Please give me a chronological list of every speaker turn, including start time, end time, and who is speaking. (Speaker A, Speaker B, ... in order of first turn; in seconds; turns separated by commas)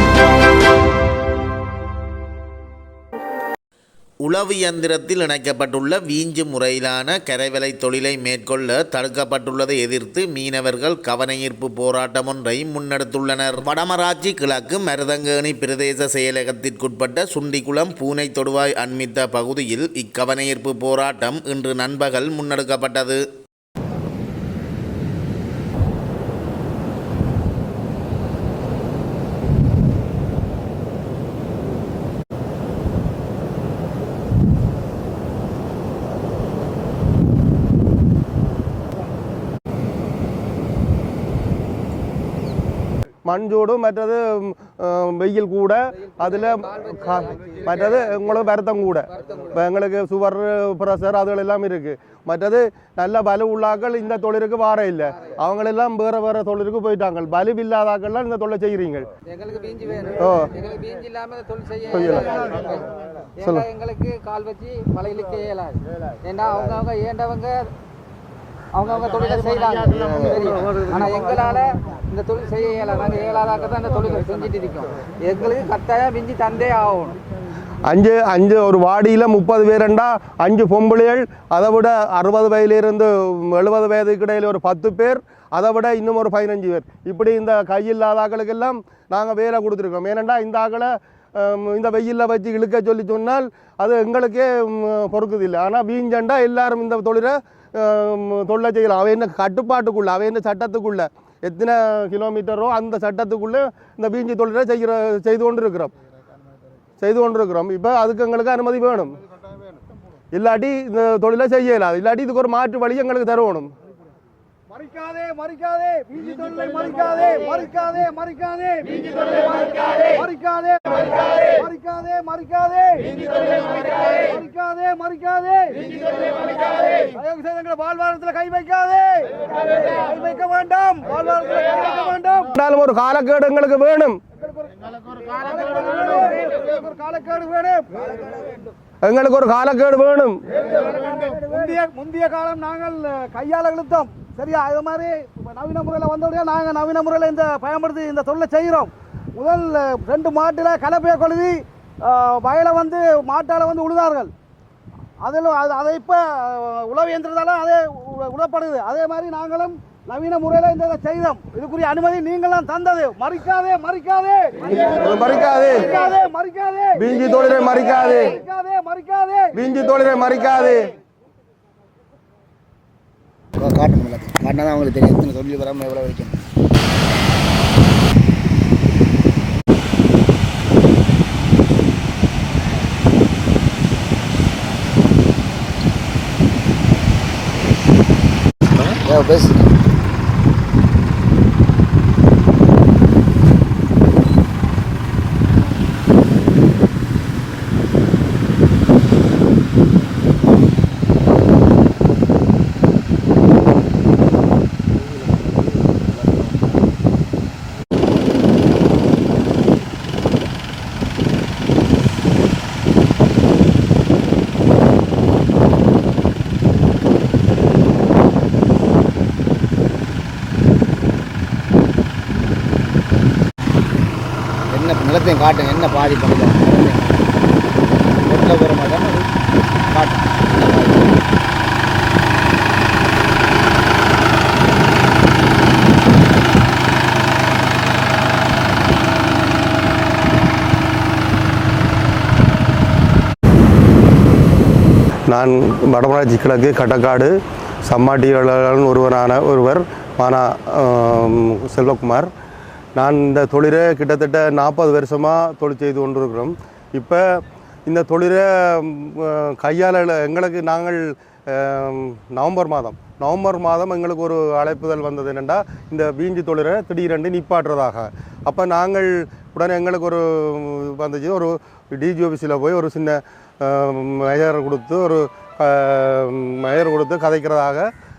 Speaker A: 4.2-23.2, Speaker B: 43.2-59.1, Speaker C: 59.3-62.8, Speaker B: 61.9-62.3, Speaker C: 63.4-67.7, Speaker C: 68.7-77.2, Speaker B: 77.9-105.9, Speaker B: 107.0-109.2, Speaker B: 110.3-113.7, Speaker D: 114.7-132.5, Speaker B: 132.5-134.2, Speaker D: 134.5-138.4, Speaker B: 139.0-140.4, Speaker D: 140.9-154.3, Speaker D: 155.2-169.6, Speaker B: 165.0-166.0, Speaker B: 166.9-168.4, Speaker B: 169.5-170.9, Speaker E: 173.6-176.3, Speaker E: 188.8-189.6, Speaker E: 224.7-227.3, Speaker E: 228.2-229.3, Speaker E: 229.9-231.1, Speaker B: 245.3-247.3, Speaker B: 247.8-252.3, Speaker B: 252.9-277.9